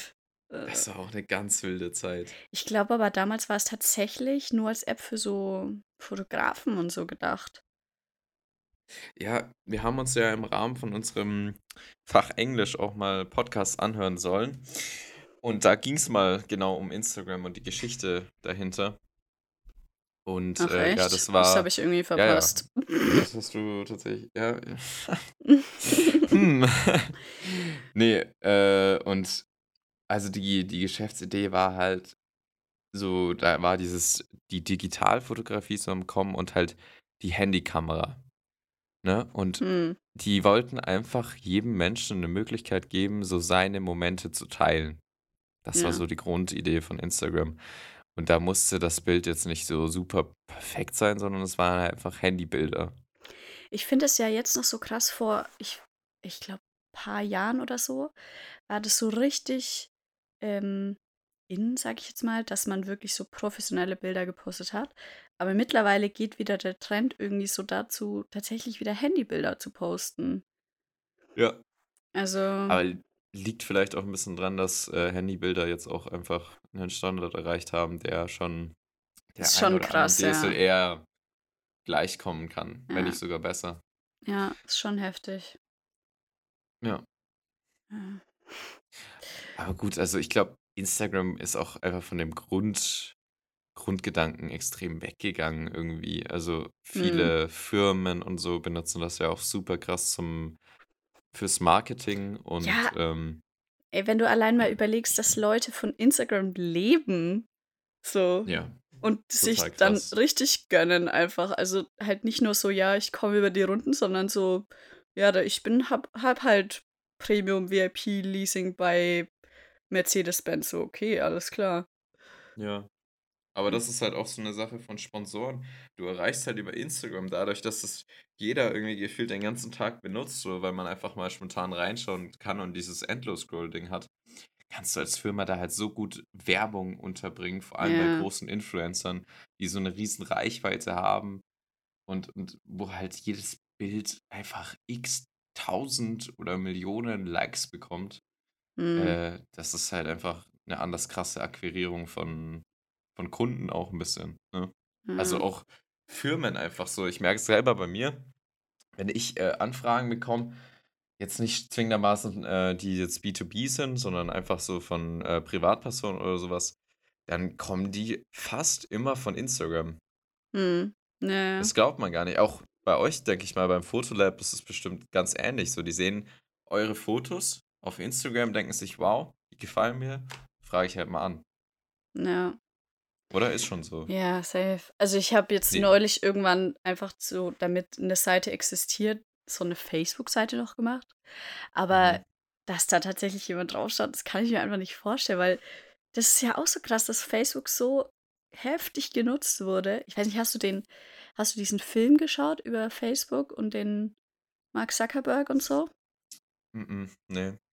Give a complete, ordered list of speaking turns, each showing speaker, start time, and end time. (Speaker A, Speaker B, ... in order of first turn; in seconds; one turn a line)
Speaker A: 0.5-0.8
Speaker B: 0.7-2.3
Speaker A: 2.5-7.6
Speaker B: 9.2-19.0
Speaker B: 20.2-29.4
Speaker A: 20.6-23.2
Speaker A: 25.6-26.3
Speaker B: 30.1-32.1
Speaker B: 32.9-38.2
Speaker B: 39.0-39.6
Speaker A: 39.6-40.0
Speaker B: 40.1-45.0
Speaker B: 45.6-47.6
Speaker A: 45.7-46.0
Speaker B: 48.1-53.0
Speaker A: 53.7-58.1
Speaker A: 58.7-59.9
Speaker A: 60.4-70.4
Speaker B: 71.3-71.6
Speaker A: 72.1-72.8
Speaker B: 72.7-78.7
Speaker B: 79.3-81.0
Speaker A: 79.4-80.6
Speaker B: 81.8-83.8
Speaker A: 82.9-83.2
Speaker A: 84.2-85.6
Speaker A: 87.9-88.8
Speaker B: 89.5-93.1
Speaker B: 93.7-100.6
Speaker A: 96.9-97.3
Speaker B: 101.3-103.4
Speaker A: 102.6-103.0
Speaker A: 103.9-107.5
Speaker A: 108.0-108.5
Speaker B: 108.5-108.8
Speaker A: 109.0-119.3
Speaker B: 109.4-110.1
Speaker A: 119.9-121.9
Speaker B: 122.6-122.9
Speaker B: 123.5-134.1
Speaker B: 134.7-141.4
Speaker A: 137.8-138.3
Speaker B: 142.1-148.2
Speaker A: 148.8-149.2
Speaker B: 148.9-152.6
Speaker B: 153.2-158.2
Speaker A: 155.1-155.4
Speaker B: 158.9-160.6
Speaker B: 161.2-166.7
Speaker B: 167.3-170.0
Speaker A: 170.5-171.7
Speaker B: 171.6-181.4
Speaker A: 182.1-182.6
Speaker B: 183.3-184.1
Speaker A: 184.1-191.1
Speaker A: 191.7-195.6
Speaker B: 191.9-192.2
Speaker A: 196.1-204.1
Speaker A: 204.7-205.9
Speaker B: 206.7-207.6